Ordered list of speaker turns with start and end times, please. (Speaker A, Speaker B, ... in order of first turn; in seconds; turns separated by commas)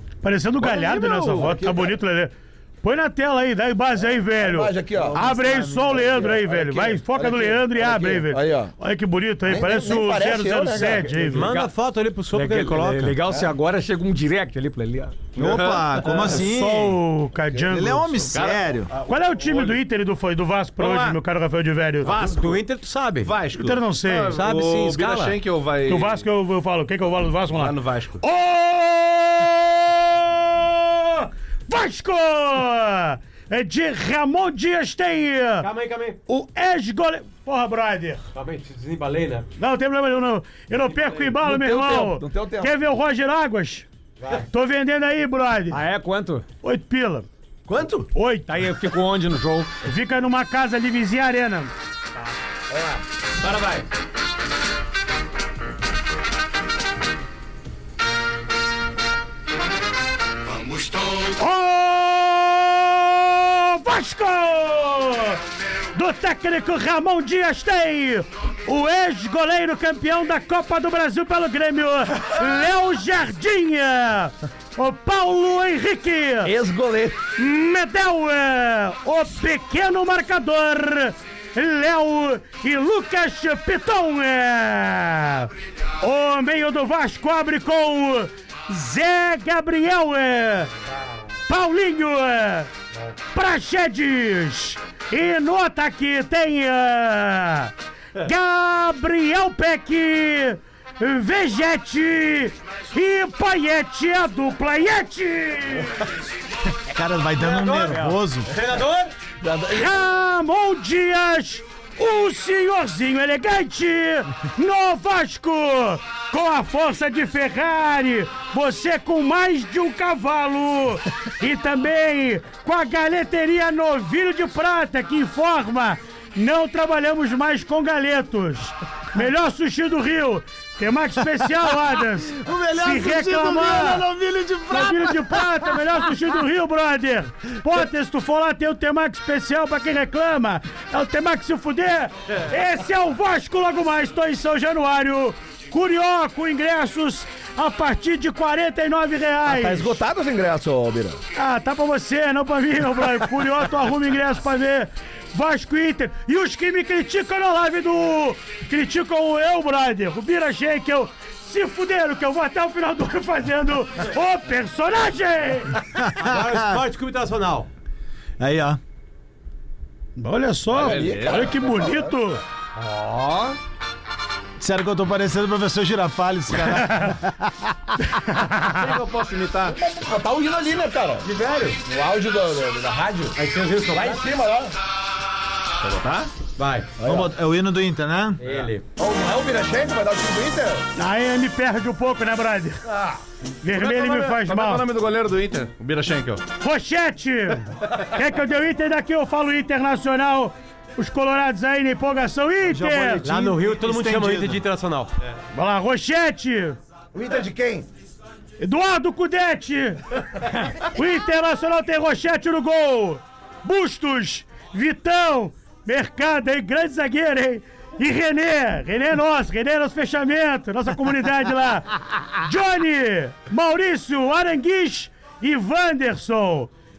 Speaker A: 0.2-11.5, Speaker B: 0.6-1.9, Speaker B: 4.3-5.3, Speaker C: 4.9-6.3, Speaker B: 5.9-8.7, Speaker B: 9.4-11.2, Speaker D: 11.2-11.7, Speaker E: 11.3-13.2, Speaker D: 12.3-15.2, Speaker F: 15.3-16.4, Speaker C: 15.4-17.0, Speaker A: 16.2-18.3, Speaker C: 17.7-18.9, Speaker F: 18.3-19.8, Speaker A: 19.1-22.1, Speaker F: 20.8-21.2, Speaker F: 22.0-22.6, Speaker E: 22.1-23.3, Speaker F: 23.2-26.3, Speaker A: 23.5-24.4, Speaker E: 24.3-25.4, Speaker A: 25.9-35.7, Speaker F: 27.5-28.2, Speaker E: 35.6-36.2, Speaker A: 36.3-38.2, Speaker E: 38.3-39.5, Speaker A: 39.6-45.8, Speaker E: 40.9-41.3, Speaker B: 41.4-42.8, Speaker E: 44.2-44.5, Speaker D: 45.7-46.4, Speaker A: 46.6-47.3, Speaker B: 47.7-48.1, Speaker A: 48.1-48.5, Speaker D: 48.5-49.7, Speaker A: 49.8-51.7, Speaker B: 52.7-53.0, Speaker E: 53.4-53.8, Speaker A: 61.1-65.4, Speaker A: 65.9-76.5, Speaker B: 76.4-77.2, Speaker A: 77.3-85.5, Speaker A: 86.0-90.7, Speaker A: 91.5-92.7, Speaker A: 93.3-106.0, Speaker C: 106.9-108.5, Speaker E: 107.4-109.1, Speaker B: 109.4-110.0, Speaker A: 109.7-134.1, Speaker C: 132.2-135.7, Speaker A: 134.7-150.0, Speaker B: 149.4-151.2, Speaker A: 151.3-165.8, Speaker C: 166.0-166.8, Speaker E: 166.2-167.7, Speaker C: 168.4-168.8, Speaker A: 170.2-172.4, Speaker F: 170.7-171.6, Speaker B: 170.7-172.2, Speaker F: 172.8-173.6, Speaker C: 174.6-178.0, Speaker A: 176.7-177.1, Speaker A: 178.1-178.8, Speaker F: 178.7-179.8, Speaker B: 179.7-181.3, Speaker E: 181.2-181.8, Speaker B: 181.8-184.7, Speaker E: 183.3-184.2, Speaker F: 185.8-186.3, Speaker E: 186.6-186.9, Speaker B: 187.0-187.3, Speaker C: 187.0-188.4, Speaker E: 188.4-188.8, Speaker B: 188.9-190.9, Speaker A: 190.9-192.8, Speaker B: 192.9-193.2, Speaker A: 193.6-194.9, Speaker F: 193.7-196.5, Speaker A: 196.6-203.2, Speaker C: 202.6-204.6, Speaker E: 203.2-205.1, Speaker A: 205.5-206.8, Speaker B: 207.1-207.9, Speaker A: 208.6-226.7